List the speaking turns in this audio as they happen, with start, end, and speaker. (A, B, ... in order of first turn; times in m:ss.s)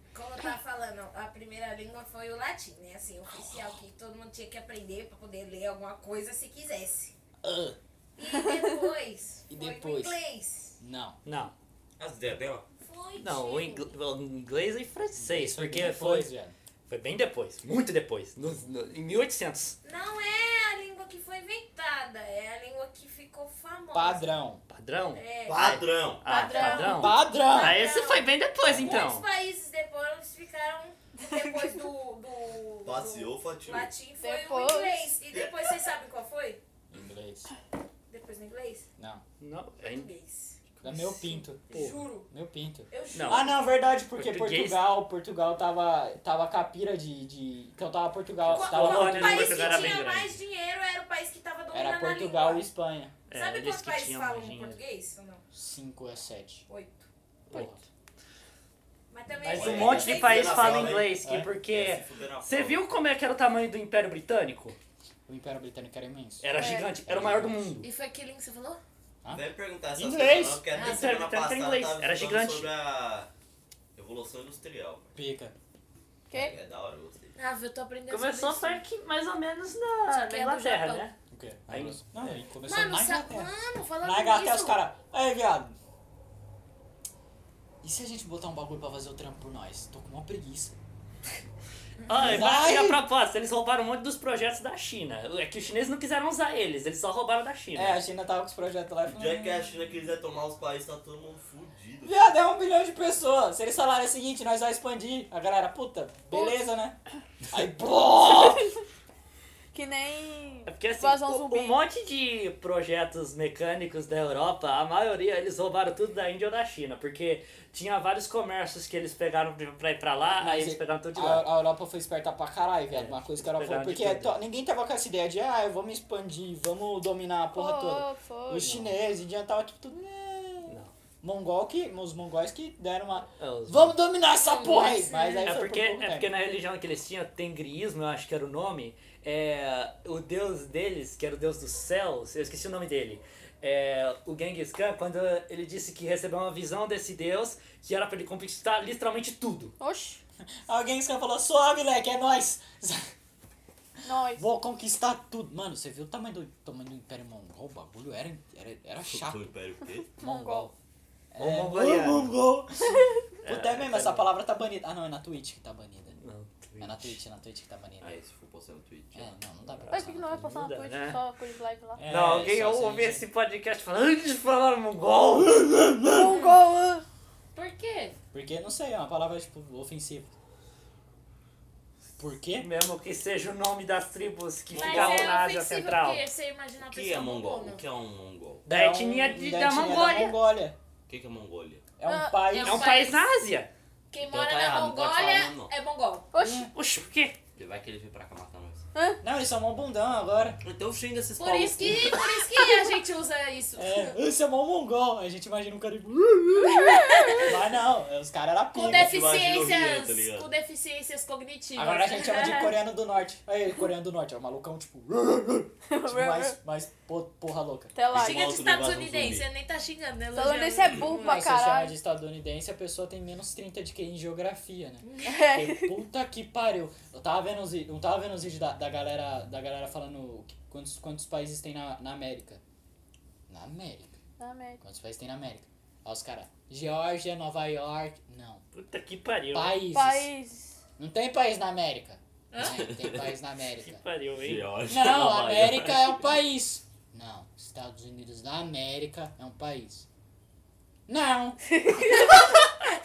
0:00.1-0:07.1 A
0:07.4-0:07.8 B
0:08.2-0:10.8 A
0:08.3-0:08.7 C
0:09.5-0:10.2 B
0:10.8-0:11.2 B
0:11.2-0:11.5 D
0:12.0-0:12.7 E
0:12.8-0:13.9 A
0:13.2-0:16.3 D
0:15.2-0:16.6 B
0:16.9-0:19.8 D
0:19.8-0:24.4 A
0:23.9-0:24.6 B
0:24.7-0:29.3 D
0:25.1-0:36.6 A
0:25.4-0:26.2 E
0:26.3-0:27.0 C
0:27.0-0:27.8 B
0:28.7-0:29.1 B
0:32.8-0:33.9 E
0:34.2-0:35.1 C
0:36.9-0:37.5 B
0:38.1-0:38.9 A
0:39.0-0:39.2 B
0:39.4-0:40.1 D
0:39.8-0:40.6 A
0:40.8-0:41.1 D
0:40.8-0:50.0 B
0:41.7-0:42.3 A
0:41.7-0:42.0 D
0:42.9-0:43.7 A
0:43.1-0:43.5 D
0:44.2-0:44.8 D
0:48.5-0:52.6 A
0:48.5-0:50.4 D
0:51.7-0:53.2 B
0:53.3-0:54.8 D
0:53.3-0:55.4 A
0:55.5-0:56.7 B
0:56.7-0:57.1 A
0:57.5-0:57.8 D
0:57.5-0:57.8 B
0:59.1-1:00.9 A
0:59.4-1:04.8 D
0:59.5-1:01.1 E
0:59.8-1:01.5 B
1:01.7-1:02.8 E
1:05.3-1:07.7 B
1:06.4-1:07.9 D
1:06.6-1:06.9 C
1:07.8-1:08.8 A
1:09.2-1:10.6 B
1:09.3-1:13.3 E
1:10.7-1:11.1 A
1:10.8-1:12.7 D
1:14.0-1:15.1 E
1:15.2-1:15.5 B
1:16.3-1:16.6 C
1:16.3-1:17.4 E
1:17.4-1:18.8 A
1:18.1-1:21.2 D
1:20.1-1:21.1 A
1:21.3-1:23.5 B
1:21.7-1:22.4 D
1:22.6-1:24.8 A
1:24.0-1:25.8 B
1:27.8-1:30.8 B
1:32.1-1:38.0 D
1:32.2-1:33.0 B
1:37.7-1:39.8 B
1:39.1-1:42.3 E
1:42.0-1:47.0 B
1:46.3-1:46.6 C
1:47.5-1:48.7 B
1:48.3-1:48.8 C
1:49.7-1:51.8 C
1:50.7-2:01.5 D
2:00.4-2:16.3 B
2:02.9-2:04.4 D
2:07.6-2:08.7 C
2:08.6-2:08.9 D
2:10.7-2:10.9 D
2:13.4-2:14.0 D
2:14.3-2:15.5 A
2:15.4-2:29.7 D
2:29.8-2:30.2 C
2:30.7-2:33.1 B
2:34.0-2:34.5 C
2:34.4-2:39.5 B
2:39.1-2:40.1 E
2:40.2-2:40.7 C
2:40.2-2:40.7 B
2:41.3-2:46.2 B
2:41.4-2:42.4 D
2:43.4-2:44.3 D
2:46.2-2:47.2 D
2:46.8-2:48.2 B
2:48.0-2:49.3 E
2:49.1-2:50.5 B
2:49.8-2:51.2 D
2:49.9-2:52.0 C
2:52.0-2:53.2 B
2:52.1-2:55.6 D
2:55.4-2:56.3 B
2:56.1-2:57.0 C
2:56.2-2:56.6 A
2:57.5-2:58.2 A
2:58.3-3:00.3 B
3:02.2-3:02.7 B
3:02.6-3:06.2 D
3:04.7-3:05.4 E
3:04.8-3:07.8 A
3:06.8-3:08.6 E
3:08.6-3:10.8 B
3:08.7-3:10.3 D
3:09.9-3:10.4 A
3:11.1-3:11.8 E
3:12.0-3:12.9 B
3:12.1-3:12.4 C
3:12.5-3:13.3 A
3:12.6-3:13.7 D
3:14.1-3:16.3 A
3:14.2-3:15.7 E
3:16.3-3:16.7 C
3:16.4-3:16.7 B
3:16.7-3:17.4 D
3:17.6-3:18.8 E
3:19.0-3:19.2 C
3:19.2-3:20.6 B
3:20.6-3:22.4 E
3:21.4-3:24.2 A
3:23.8-3:29.2 B
3:26.7-3:27.5 A
3:26.7-3:27.4 C
3:28.7-3:32.8 A
3:28.8-3:30.5 E
3:31.8-3:38.0 B
3:35.9-3:36.6 C
3:38.0-3:38.5 C
3:38.1-3:39.5 E
3:38.2-3:41.2 A
3:40.3-3:41.9 C
3:41.1-3:52.6 B
3:45.0-3:45.3 A
3:45.2-3:45.9 C
3:53.5-3:54.2 B
3:54.4-3:54.8 C
3:54.8-3:58.6 B
3:58.7-3:59.8 D
3:59.5-4:00.3 B
3:59.9-4:00.8 C
4:01.0-4:04.0 B
4:02.5-4:02.9 A
4:02.6-4:03.3 E
4:03.8-4:04.7 D
4:04.4-4:06.2 E
4:04.9-4:10.1 B
4:11.1-4:12.2 B
4:11.8-4:12.3 C